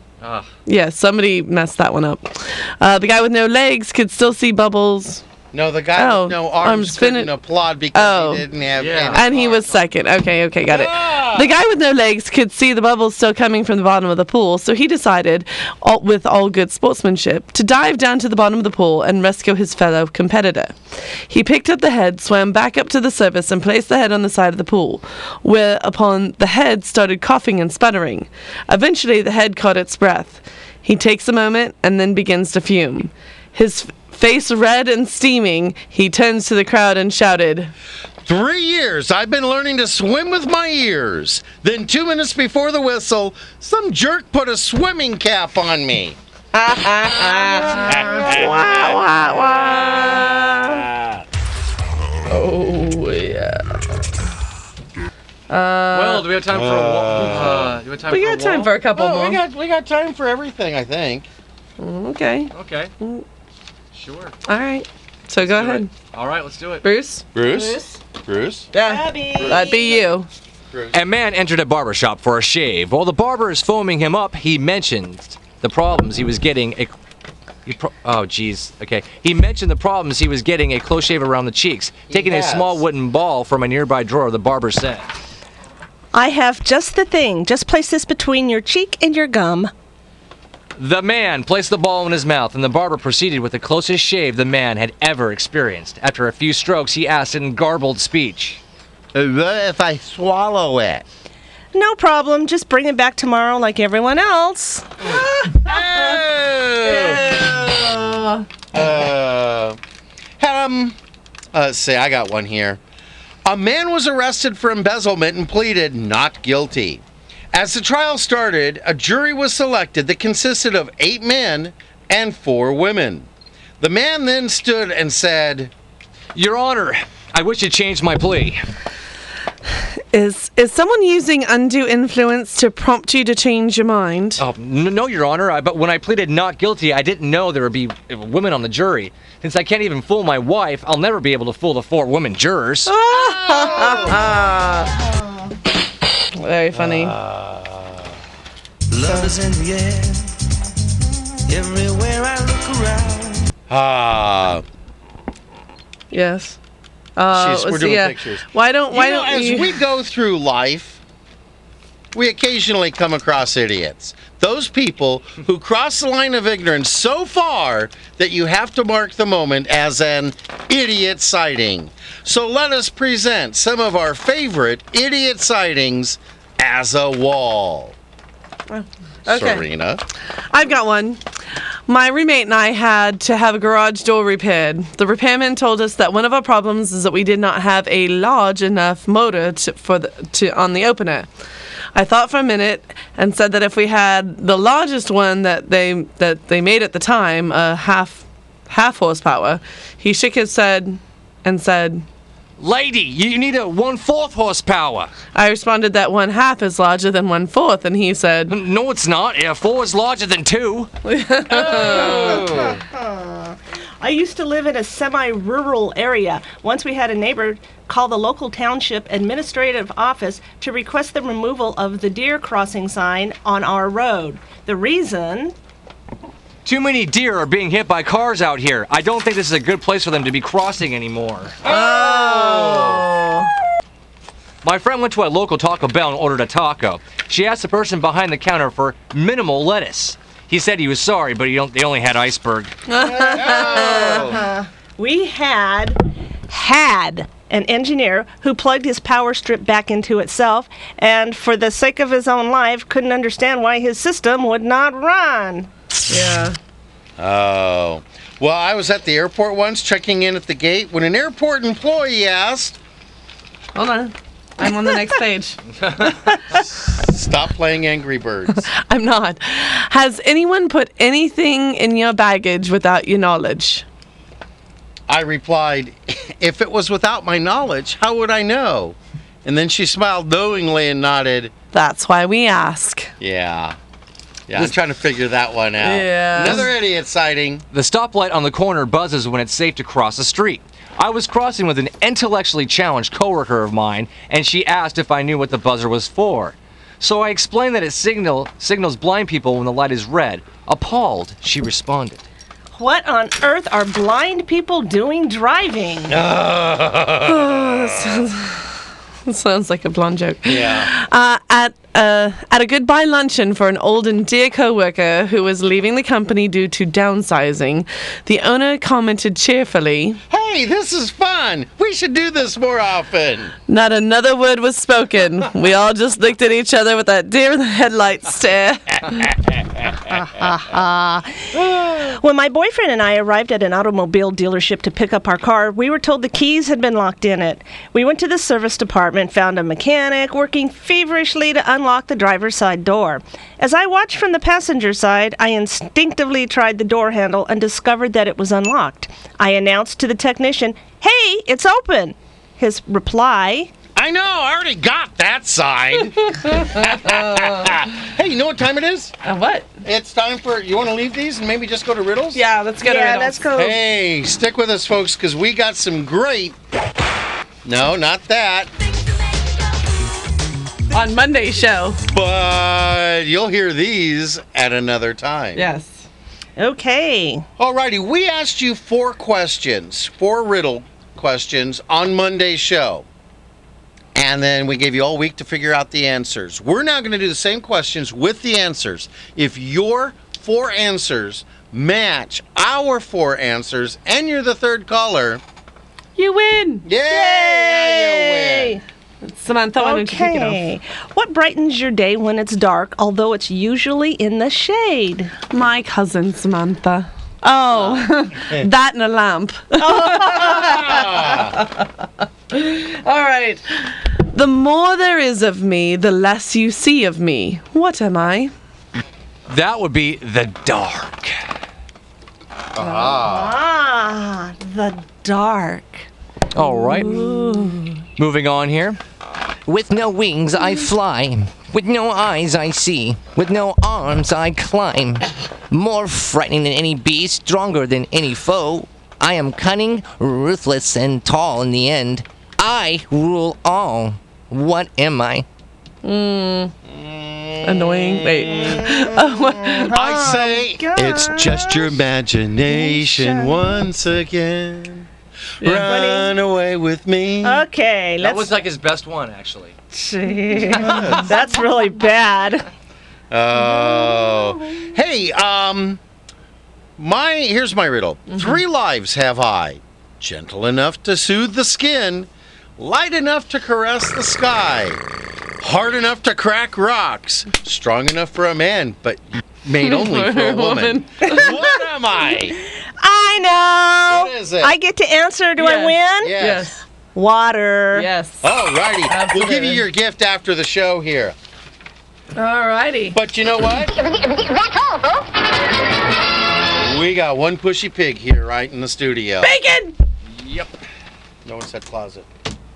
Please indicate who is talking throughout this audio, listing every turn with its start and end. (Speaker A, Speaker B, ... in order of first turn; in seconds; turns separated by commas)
Speaker A: 0.2-0.5, Speaker B: 0.7-5.2, Speaker C: 5.5-9.8, Speaker B: 6.0-7.3, Speaker B: 7.9-8.4, Speaker A: 8.8-9.2, Speaker B: 9.1-20.8, Speaker C: 10.7-11.5, Speaker B: 21.3-37.7, Speaker C: 38.2-46.2, Speaker B: 46.5-50.9, Speaker C: 47.9-48.8, Speaker C: 49.9-51.2, Speaker B: 52.3-53.8, Speaker B: 55.5-56.3, Speaker A: 55.9-58.7, Speaker C: 56.5-57.8, Speaker B: 58.1-59.4, Speaker C: 58.9-61.2, Speaker B: 61.8-63.2, Speaker A: 62.5-62.9, Speaker A: 63.9-64.3, Speaker B: 64.5-65.9, Speaker A: 65.4-66.8, Speaker B: 66.8-68.0, Speaker C: 67.3-68.7, Speaker B: 68.7-70.3, Speaker D: 68.8-70.0, Speaker C: 69.3-70.0, Speaker C: 70.7-71.0, Speaker A: 70.9-76.9, Speaker A: 77.7-85.1, Speaker C: 82.1-82.8, Speaker D: 86.1-89.7, Speaker A: 90.8-98.6, Speaker C: 99.1-101.0, Speaker D: 101.7-104.9, Speaker C: 105.5-107.9, Speaker B: 106.8-108.4, Speaker C: 108.7-109.8, Speaker C: 110.4-111.0, Speaker C: 111.5-112.8, Speaker C: 113.4-123.3, Speaker C: 123.8-125.7, Speaker A: 126.3-128.6, Speaker B: 130.1-134.4, Speaker A: 134.4-142.9, Speaker B: 142.8-144.9, Speaker C: 143.1-144.3, Speaker B: 146.4-147.2, Speaker C: 146.7-148.1, Speaker E: 148.9-150.3, Speaker E: 151.5-153.5, Speaker C: 153.7-154.6, Speaker B: 156.1-156.6, Speaker B: 157.2-159.7, Speaker C: 157.3-161.0, Speaker C: 162.1-177.9, Speaker B: 178.7-179.7, Speaker C: 179.3-180.0, Speaker B: 180.5-181.2, Speaker B: 181.9-191.3, Speaker B: 191.9-202.0, Speaker A: 202.6-205.1, Speaker B: 205.3-208.5, Speaker A: 208.5-210.9, Speaker B: 211.0-212.2, Speaker A: 211.5-212.8, Speaker D: 211.6-225.6, Speaker A: 226.6-231.6, Speaker B: 231.6-233.5, Speaker C: 231.7-232.8, Speaker A: 234.6-242.8, Speaker B: 242.9-244.2, Speaker C: 243.0-244.5, Speaker D: 243.4-255.7, Speaker B: 256.1-256.6, Speaker C: 257.2-262.8, Speaker B: 263.7-265.6, Speaker C: 266.5-268.6, Speaker B: 268.7-273.8, Speaker C: 275.1-281.5, Speaker B: 281.7-283.1, Speaker C: 283.2-283.8, Speaker C: 284.5-287.6, Speaker B: 285.8-286.7, Speaker A: 287.7-302.2, Speaker D: 302.7-306.2, Speaker C: 306.1-308.3, Speaker B: 307.2-308.7, Speaker B: 309.2-320.2, Speaker C: 310.4-310.9, Speaker C: 320.3-323.5, Speaker B: 323.7-329.3, Speaker D: 330.1-353.7, Speaker C: 353.9-359.1, Speaker B: 356.4-357.8, Speaker B: 359.2-359.7, Speaker C: 359.8-362.4, Speaker B: 362.3-363.4, Speaker D: 362.8-363.8, Speaker C: 363.5-366.6, Speaker C: 367.6-368.7, Speaker B: 370.9-372.0, Speaker C: 372.1-375.6, Speaker B: 375.5-376.1, Speaker D: 376.6-377.5, Speaker C: 377.6-383.1, Speaker C: 384.1-395.4, Speaker B: 396.1-396.9, Speaker C: 396.8-398.8, Speaker D: 397.1-398.8, Speaker B: 399.2-400.6, Speaker D: 399.8-405.3, Speaker B: 405.5-418.5, Speaker D: 409.8-411.2, Speaker C: 410.4-411.6, Speaker A: 419.5-421.3, Speaker C: 422.7-423.6, Speaker D: 422.8-426.1, Speaker A: 426.5-427.2, Speaker B: 426.7-427.8, Speaker D: 427.1-427.8, Speaker A: 428.2-429.0, Speaker A: 429.6-445.4, Speaker B: 446.0-446.7, Speaker C: 446.8-449.1, Speaker B: 447.6-449.9, Speaker C: 449.8-455.1, Speaker D: 449.8-452.0, Speaker D: 452.7-453.6, Speaker B: 455.6-455.9, Speaker C: 455.6-457.6, Speaker D: 455.8-456.3, Speaker D: 457.4-458.5, Speaker A: 458.2-459.8, Speaker D: 459.9-462.7, Speaker A: 460.8-461.1, Speaker C: 460.8-461.3, Speaker C: 463.3-466.0, Speaker C: 467.0-475.0, Speaker C: 475.6-482.6, Speaker B: 479.8-481.4, Speaker D: 481.2-481.8, Speaker D: 483.0-486.4, Speaker C: 484.1-484.7, Speaker B: 485.6-486.8, Speaker C: 486.2-486.8, Speaker D: 487.1-488.1, Speaker B: 487.9-488.5, Speaker C: 488.4-491.3, Speaker B: 489.1-489.8, Speaker B: 492.3-493.2, Speaker C: 493.1-493.9, Speaker C: 496.7-499.5, Speaker B: 499.4-499.9, Speaker A: 500.4-500.7, Speaker C: 501.4-502.3